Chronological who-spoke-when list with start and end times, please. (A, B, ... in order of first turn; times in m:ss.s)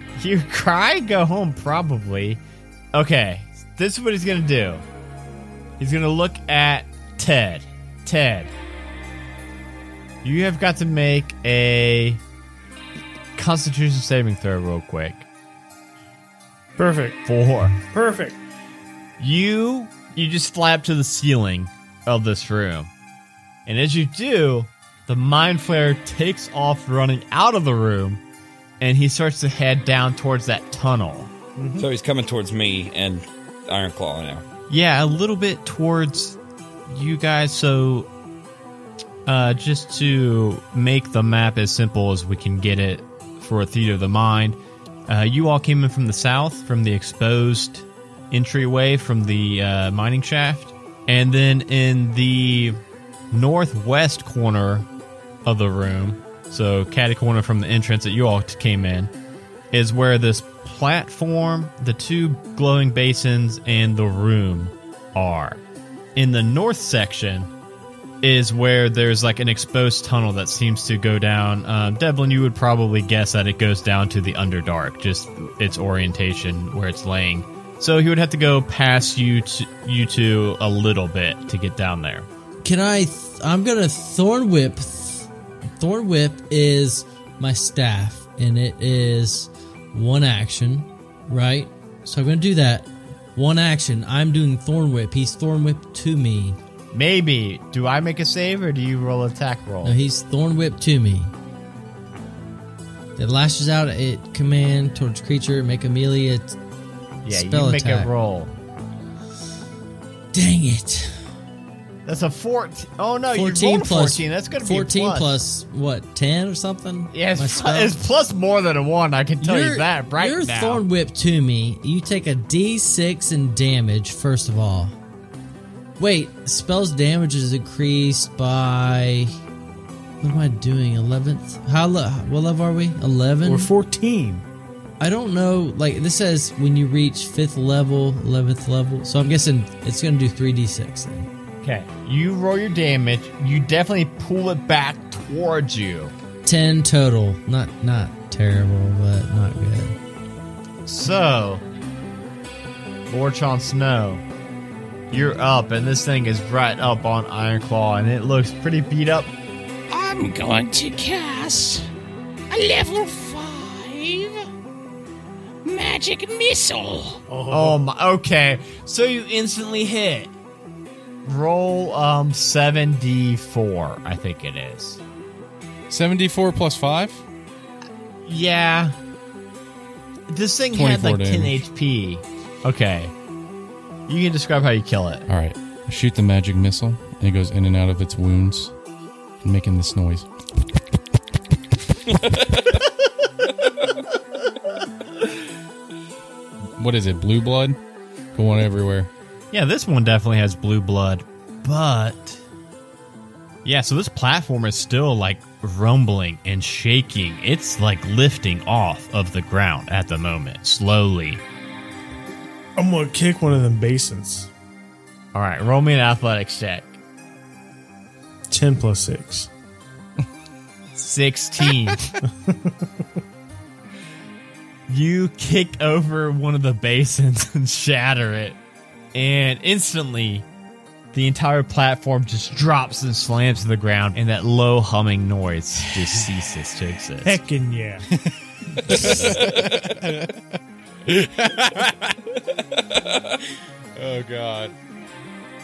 0:00.2-0:02.4 A
0:02.9-0:04.8 A
0:05.8-0:08.5 A
0:10.2-0:12.2 A
0:13.4-0:15.3 A
0:16.8-0:17.2 B
0:17.3-0:17.8 A
0:17.9-0:18.4 B
0:19.2-0:22.9 A
0:23.7-0:28.2 A
0:28.8-0:31.3 A
0:31.6-0:31.9 B
0:31.8-0:34.4 C
0:34.7-0:36.4 A
0:36.9-0:38.1 A
0:39.3-0:52.8 A
0:53.3-0:54.9 A
0:55.4-0:59.1 A
0:59.7-1:05.6 A
1:06.2-1:07.5 A
1:08.2-1:22.3 A
1:22.6-1:36.6 D
1:36.9-1:40.0 A
1:39.8-1:41.3 D
1:43.2-1:46.6 D
1:47.2-1:48.5 A
1:47.3-1:48.1 D
1:50.3-1:51.2 D
1:52.1-1:55.4 A
1:53.3-1:58.0 D
1:57.1-2:00.8 A
1:59.4-2:05.0 D
2:06.0-2:09.3 D
2:10.2-2:13.7 D
2:13.4-2:14.4 B
2:15.0-2:21.3 D
2:21.6-2:26.1 A
2:26.4-2:30.0 D
2:30.9-2:31.6 A
2:33.1-2:34.2 A
2:35.1-2:39.3 A
2:39.9-2:41.9 E
2:42.5-2:44.4 E
2:45.6-2:47.2 E
2:47.3-2:47.8 B
2:47.5-2:50.3 A
2:51.2-2:55.0 A
2:55.9-2:57.2 F
2:58.3-2:59.0 A
3:00.3-3:03.1 A
3:00.7-3:01.6 F
3:04.1-3:05.3 A
3:05.3-3:08.7 F
3:09.4-3:10.3 F
3:16.8-3:17.8 F
3:18.3-3:19.1 F
3:19.5-3:22.4 A
3:23.6-3:31.4 A
3:32.8-3:34.5 B
3:35.3-3:37.0 A
3:38.5-3:39.5 B
3:41.0-3:42.0 A
3:42.4-3:42.7 B
3:44.9-3:48.6 A
3:49.1-3:50.5 A
3:51.1-3:57.4 A
3:57.2-3:58.0 B
3:58.2-4:00.4 F
3:59.0-3:59.9 C
4:01.1-4:02.2 F
4:02.8-4:03.4 C
4:04.0-4:04.7 F